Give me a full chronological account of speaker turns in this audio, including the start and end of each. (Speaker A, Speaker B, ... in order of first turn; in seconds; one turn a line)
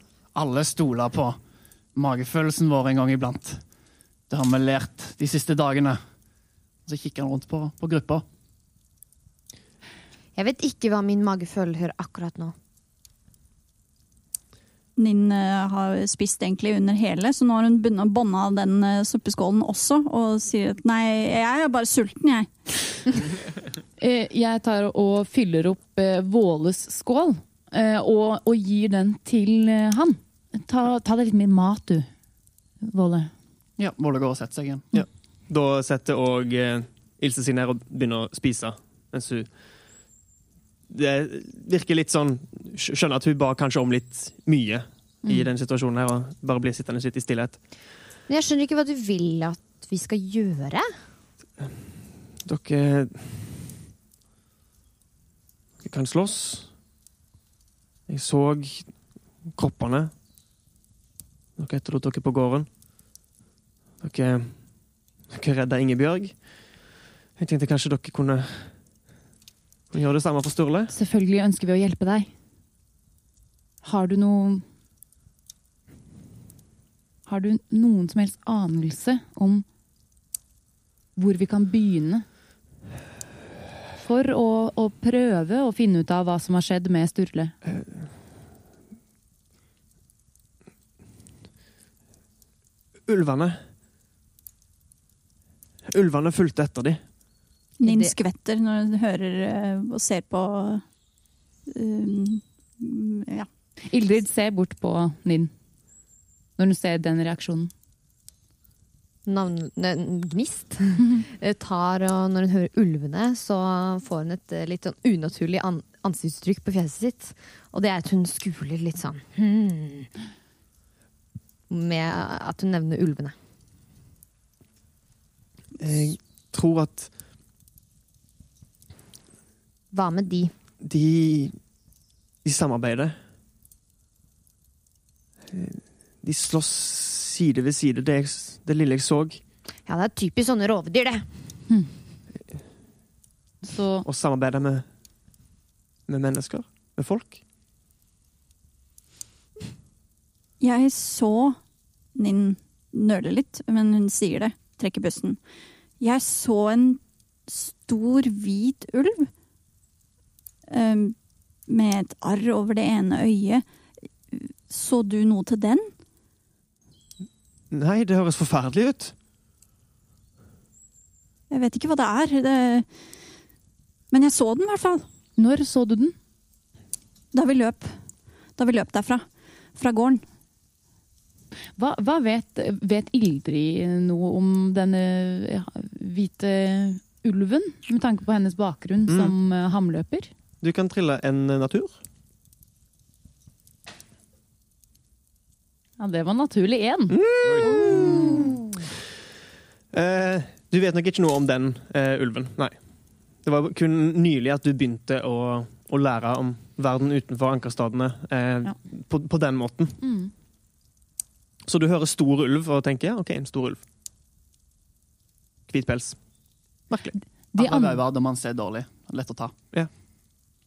Speaker A: 0.3-1.4
Speaker A: 1.9-3.7
Speaker A: 4.3-6.0
Speaker A: 6.9-8.2
Speaker B: 10.3-12.6
Speaker C: 15.0-23.0
Speaker D: 24.0-32.1
Speaker D: 32.8-33.3
Speaker A: 33.8-34.9
Speaker E: 34.9-40.1
Speaker E: 40.9-47.7
Speaker D: 45.2-45.5
Speaker B: 48.3-50.9
Speaker E: 51.6-53.6
Speaker E: 55.8-56.8
Speaker E: 58.1-60.1
Speaker E: 61.6-62.7
Speaker E: 64.0-68.8
Speaker E: 69.9-71.0
Speaker D: 70.9-72.3
Speaker D: 73.8-74.7
Speaker D: 77.3-79.7
Speaker D: 81.2-82.3
Speaker D: 84.0-87.6
Speaker E: 87.6-88.2
Speaker E: 93.1-93.7
Speaker E: 95.9-97.1
Speaker C: 97.8-100.9
Speaker B: 97.8-98.2
Speaker C: 101.7-103.5
Speaker D: 103.8-105.5
Speaker D: 106.6-107.7
Speaker B: 109.3-120.1
Speaker B: 121.7-123.3
Speaker E: 125.8-127.1
Speaker B: 129.9-130.5
Speaker E: 130.8-131.7
Speaker E: 132.4-133.2
Speaker E: 135.5-139.4
Speaker B: 139.8-141.6
Speaker D: 143.6-144.1
Speaker E: 144.1-144.8
Speaker E: 146.1-147.4
Speaker C: 150.6-155.5
Speaker C: 156.0-159.3
Speaker C: 160.7-163.7
Speaker C: 164.3-166.0
Speaker E: 167.7-169.2
Speaker C: 171.5-173.0
Speaker C: 174.1-175.1
Speaker D: 175.4-176.2
Speaker C: 177.3-178.0
Speaker C: 178.5-180.3
Speaker D: 181.8-190.3
Speaker E: 189.1-189.3
Speaker E: 190.6-192.0
Speaker D: 196.0-197.9
Speaker E: 197.1-198.4
Speaker E: 199.9-210.0
Speaker D: 210.0-210.3
Speaker E: 211.7-213.8
Speaker E: 215.7-217.2
Speaker D: 217.2-218.0
Speaker A: 217.6-219.5